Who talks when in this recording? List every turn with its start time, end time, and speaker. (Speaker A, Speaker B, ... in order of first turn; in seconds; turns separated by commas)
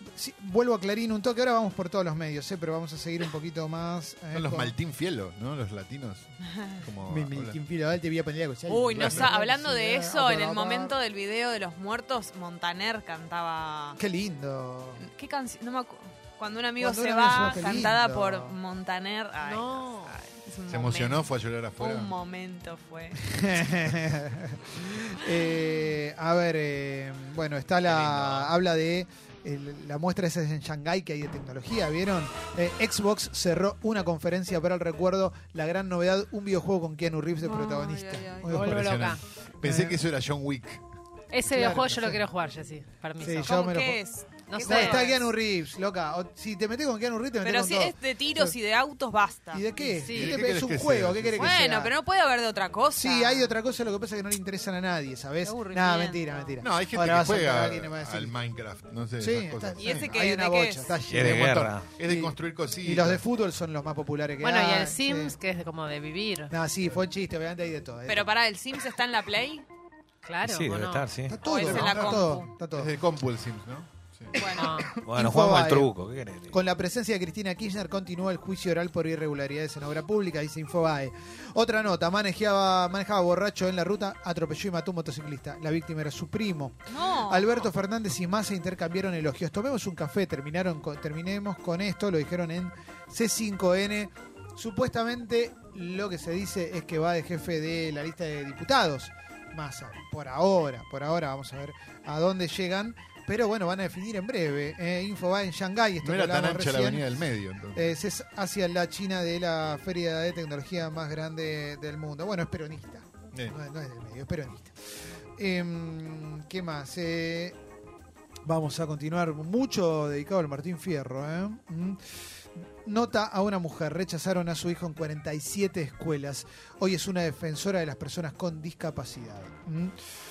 Speaker A: 0.1-4.7, Speaker B: 4.3-7.6, Speaker A: 7.0-11.0, Speaker C: 8.7-14.0, Speaker B: 8.9-9.3, Speaker A: 14.0-15.1, Speaker C: 15.0-23.2, Speaker A: 16.8-18.6, Speaker D: 19.4-20.1, Speaker B: 20.7-22.1, Speaker A: 23.2-38.7, Speaker E: 27.9-28.5, Speaker C: 37.4-38.7, Speaker D: 38.5-39.2, Speaker B: 38.6-40.8, Speaker A: 39.6-40.0, Speaker D: 41.3-43.5, Speaker A: 41.5-42.2, Speaker A: 43.2-44.0, Speaker C: 43.4-45.2, Speaker D: 44.5-45.1, Speaker A: 44.7-48.6, Speaker C: 47.4-49.6, Speaker A: 49.5-52.0, Speaker D: 49.8-50.4, Speaker B: 50.1-51.6, Speaker C: 51.4-53.6, Speaker A: 52.9-58.4, Speaker C: 55.4-56.6, Speaker B: 56.6-60.2, Speaker A: 59.2-65.4, Speaker C: 59.8-61.0, Speaker E: 61.1-61.9, Speaker B: 61.8-63.2, Speaker D: 64.4-66.5, Speaker A: 66.5-68.4, Speaker C: 68.1-69.6, Speaker D: 70.2-71.1, Speaker E: 70.4-71.9, Speaker A: 71.3-73.0, Speaker C: 71.4-72.5, Speaker B: 71.7-74.4, Speaker C: 74.3-74.8, Speaker D: 74.5-74.9, Speaker A: 74.6-75.9, Speaker E: 75.0-76.6, Speaker A: 76.5-107.0, Speaker C: 86.9-87.7, Speaker B: 106.0-108.0, Speaker A: 107.8-114.7, Speaker A: 115.4-117.6, Speaker A: 118.4-122.0, Speaker A: 122.8-129.9